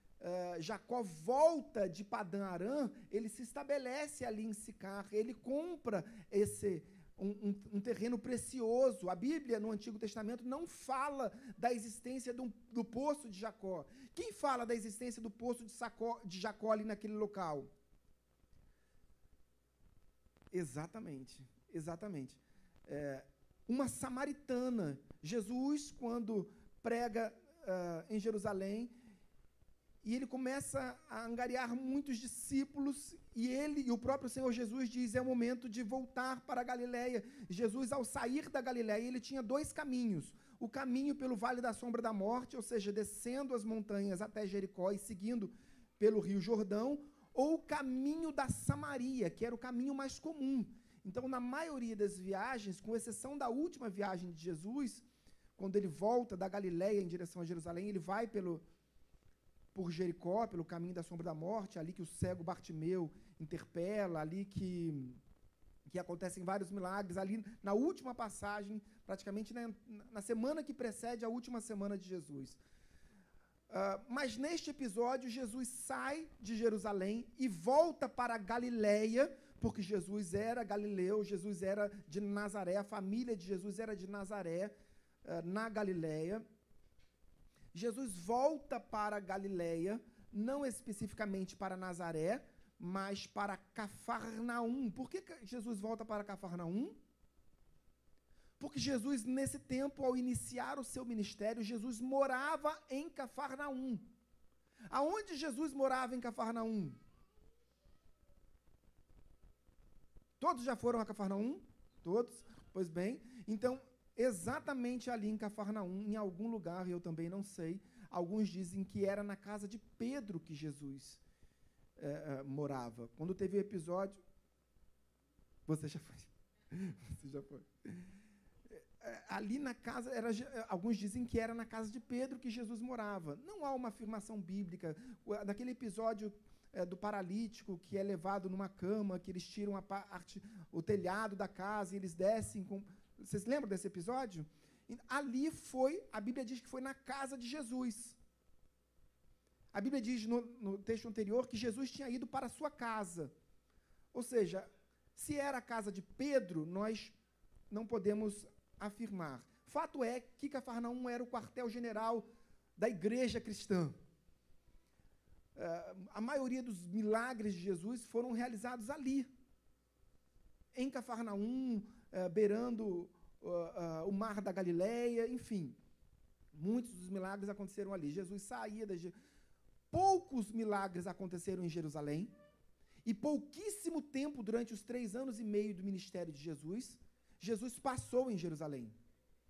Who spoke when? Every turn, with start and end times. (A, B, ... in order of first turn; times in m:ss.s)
0:00.2-0:17.7 A
0:20.5-0:28.9 A
0:30.0-0:55.0 A
0:55.6-0:58.6 A
0:59.7-1:05.2 A
1:05.9-1:12.6 A
1:13.7-1:26.4 A
1:27.7-1:37.0 A
1:38.6-1:44.1 A
1:44.9-1:47.0 A
1:50.4-2:01.2 A
2:02.0-2:04.2 A
2:05.7-2:08.0 A
2:08.7-2:28.2 A
2:29.7-2:33.3 A
2:34.1-2:37.2 A
2:37.7-2:44.0 A
2:45.5-2:49.3 A
2:50.7-2:55.8 A
2:56.5-2:59.1 A
2:59.9-3:02.3 A
3:03.0-3:09.0 A